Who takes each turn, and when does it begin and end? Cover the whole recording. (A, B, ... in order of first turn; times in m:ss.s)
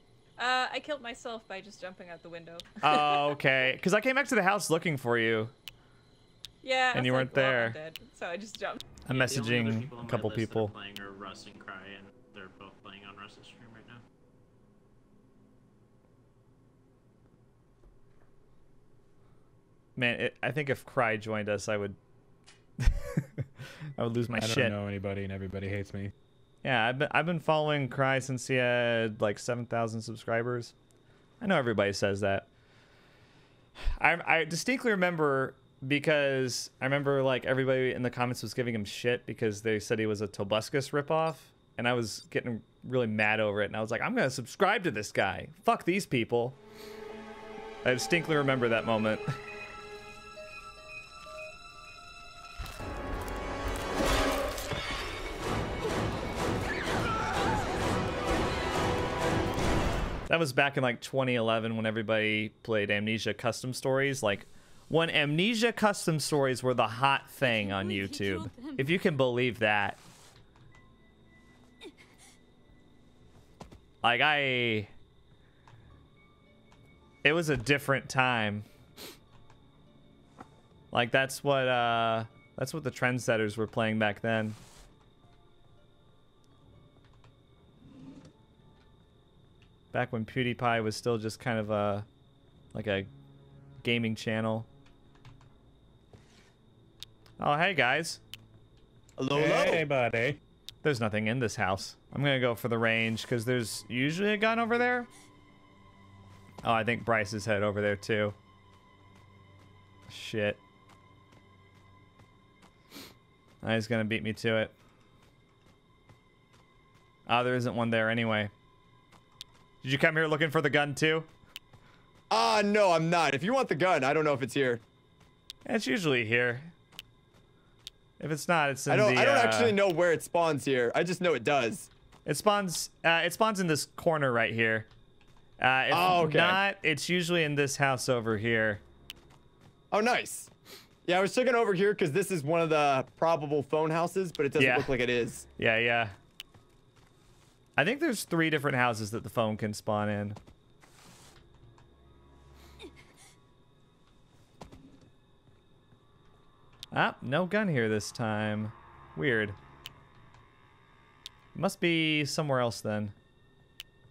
0:00.4-0:02.7 A
0:02.8-0:05.5 B
0:06.6-0:08.8 A
0:06.9-0:07.8 B
0:09.0-0:10.7 B
0:09.1-0:14.0 C
0:20.0-0:22.0 B
0:22.8-0:23.4 B
0:24.0-0:24.7 B
0:24.3-0:26.1 D
0:26.6-0:30.7 B
0:31.4-0:32.5 B
0:34.0-0:46.6 B
0:47.8-0:49.2 B
1:00.3-1:10.0 B
1:07.9-1:08.6 A
1:14.0-1:14.9 B
1:17.2-1:18.6 B
1:20.9-1:24.6 B
1:29.9-1:32.1 B
1:32.7-1:33.1 B
1:33.8-1:34.7 B
1:37.4-1:38.2 B
1:39.2-1:39.9 E
1:39.3-1:40.4 D
1:40.8-1:45.1 B
1:46.6-1:48.4 B
1:50.1-1:50.6 B
1:53.6-1:54.7 B
1:57.3-1:58.5 B
1:59.8-2:01.3 B
2:02.3-2:04.8 E
2:05.6-2:06.7 B
2:08.2-2:09.8 B
2:08.9-2:11.9 E
2:12.2-2:14.9 B
2:15.6-2:18.8 B
2:15.9-2:16.6 E
2:19.9-2:20.5 E
2:21.0-2:25.4 E
2:24.6-2:24.9 B
2:25.6-2:26.2 B
2:27.8-2:30.4 B
2:36.9-2:39.6 B
2:41.5-2:43.1 B